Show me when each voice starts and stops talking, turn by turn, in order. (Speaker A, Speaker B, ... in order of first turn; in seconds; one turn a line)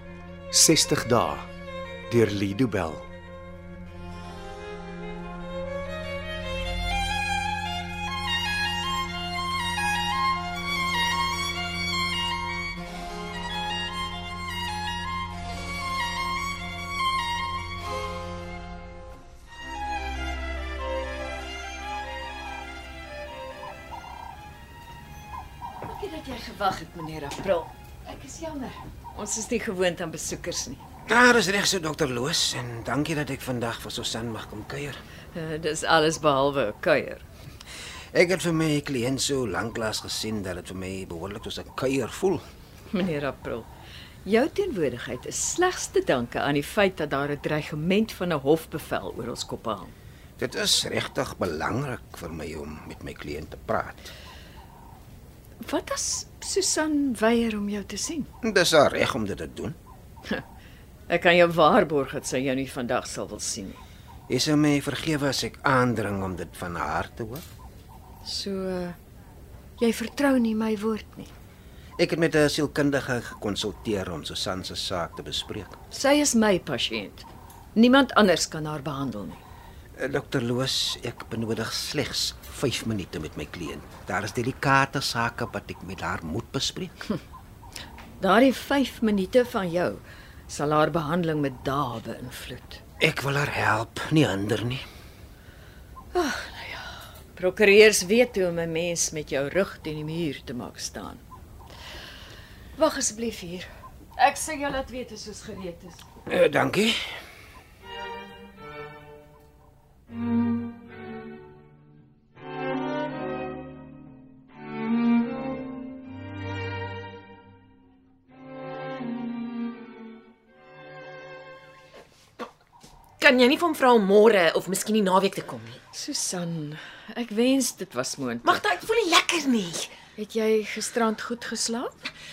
Speaker A: 0.5-1.5
Speaker A: 2.1-3.1
Speaker B: 25.8-30.8
Speaker C: 31.1-35.0
Speaker B: 35.3-37.2
Speaker C: 38.1-42.4
Speaker B: 42.9-43.7
Speaker B: 44.2-49.9
Speaker C: 50.4-54.1
Speaker B: 55.6-58.3
Speaker C: 58.4-59.8
Speaker B: 61.1-63.8
Speaker C: 64.3-67.5
Speaker B: 68.2-69.0
Speaker B: 69.8-71.3
Speaker C: 72.0-75.8
Speaker B: 75.9-79.4
Speaker C: 80.0-87.0
Speaker B: 88.2-92.8
Speaker C: 93.0-94.8
Speaker B: 96.1-101.2
Speaker B: 102.8-106.0
Speaker C: 106.3-107.0
Speaker D: 123.2-125.8
Speaker B: 125.9-128.6
Speaker D: 128.4-129.9
Speaker B: 130.1-131.9